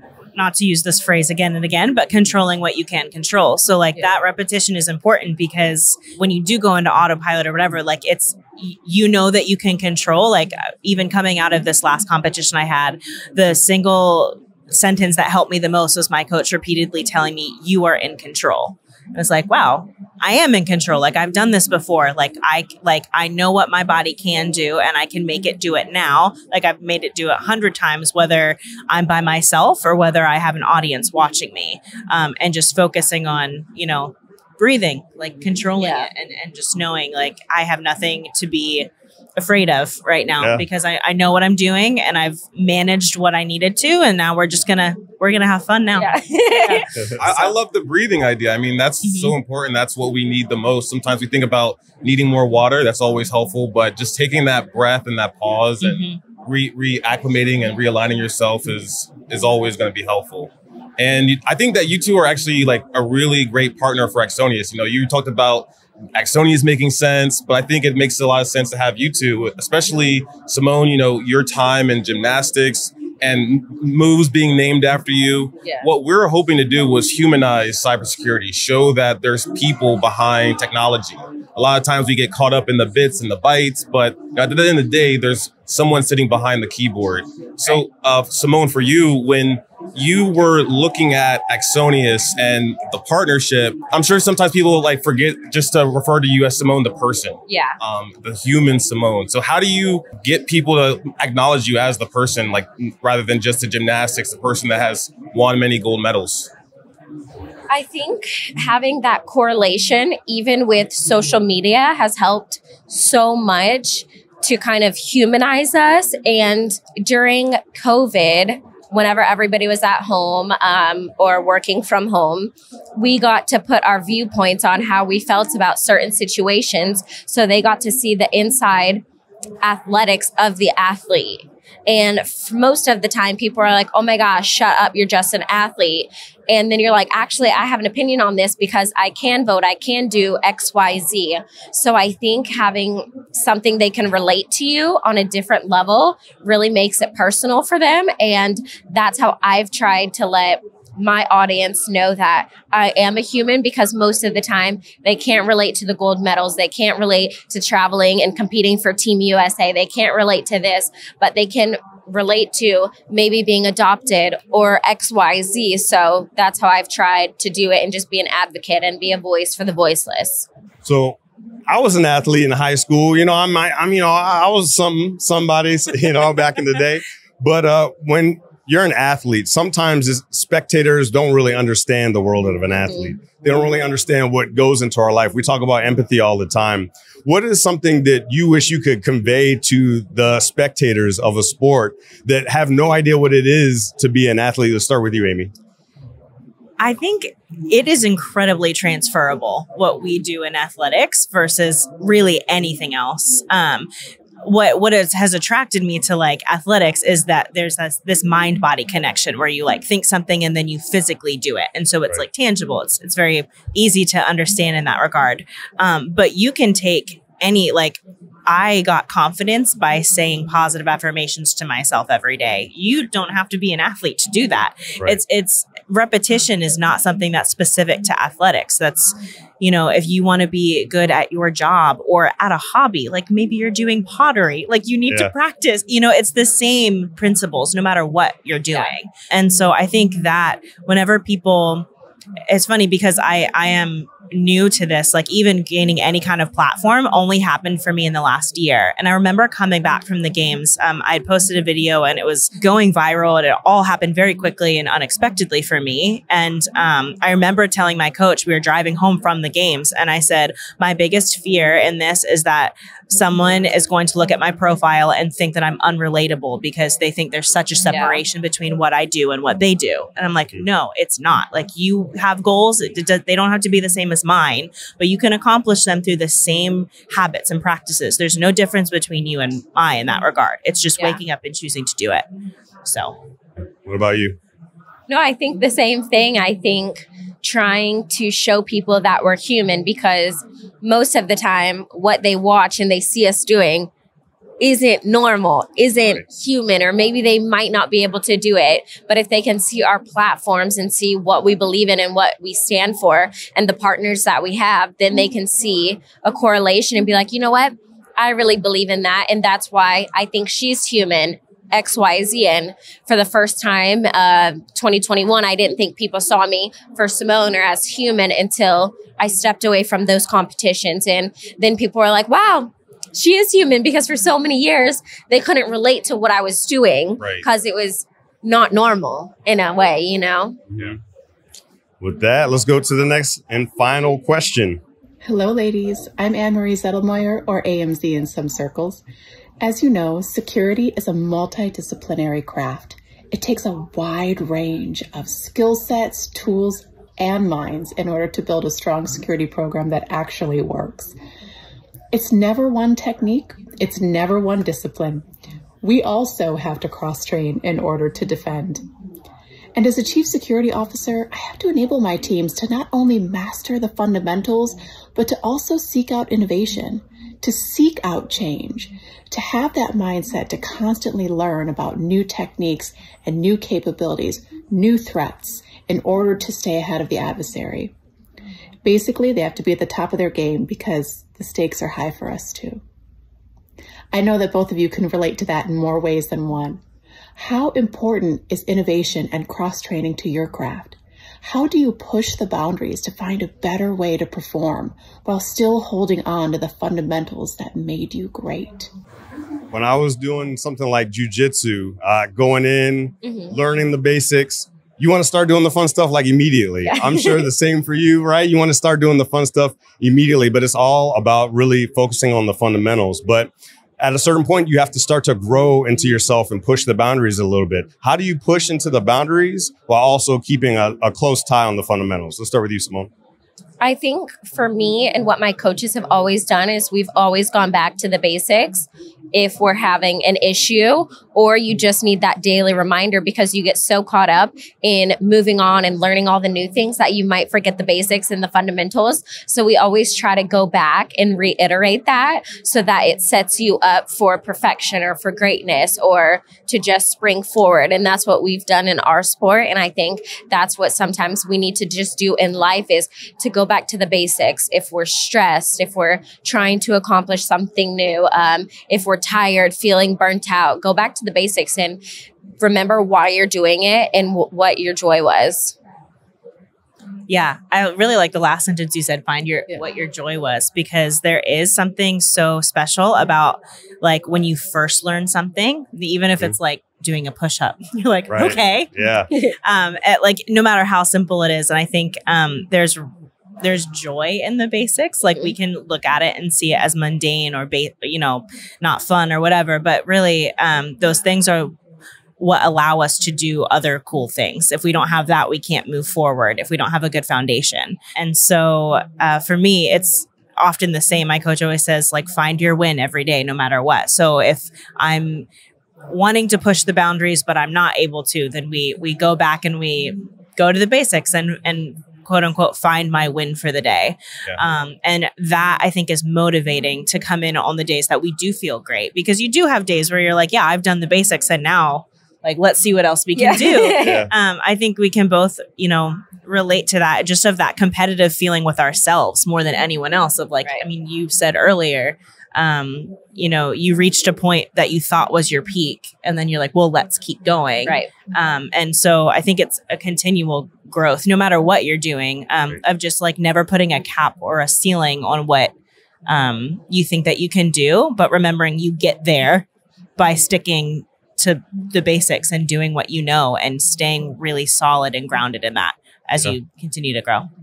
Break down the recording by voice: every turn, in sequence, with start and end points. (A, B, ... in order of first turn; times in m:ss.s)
0:00.3-0:46.1 A
0:35.8-0:36.1 B
0:40.4-0:40.6 C
0:45.9-0:47.5 B
0:47.2-1:46.5 D
0:49.0-0:49.3 A
0:55.8-0:56.2 A
1:37.5-1:37.8 B
1:47.7-2:09.0 B
2:09.6-2:50.4 B
2:50.8-2:51.2 C
2:51.7-3:15.5 C
3:02.9-3:03.2 B
3:16.8-3:23.9 A
3:24.4-4:01.9 A
4:02.5-4:42.3 A
4:27.8-4:28.2 B
4:42.8-4:43.1 A
4:43.8-4:44.4 C
4:45.1-4:53.9 B
4:54.6-5:30.6 B
5:27.2-5:27.4 D
5:32.0-5:34.8 C
5:35.2-5:39.0 E
5:39.6-5:51.1 E
5:52.1-5:55.2 E
5:55.8-5:58.8 E
5:59.7-6:17.9 E
6:18.8-6:22.8 E
6:24.1-6:26.8 E
6:27.4-6:38.9 E
6:39.7-7:03.1 C
6:43.2-6:43.6 B
6:46.8-6:47.5 B
7:03.8-7:42.0 B
7:42.6-7:45.7 B
7:47.3-7:58.9 A
7:58.3-7:59.3 C
7:59.6-8:03.1 A
8:03.6-8:11.7 A
8:12.4-8:25.5 A
8:26.1-9:05.7 A
8:43.4-8:44.3 B
8:44.0-8:44.3 C
8:57.8-8:58.1 B
9:06.3-9:17.5 A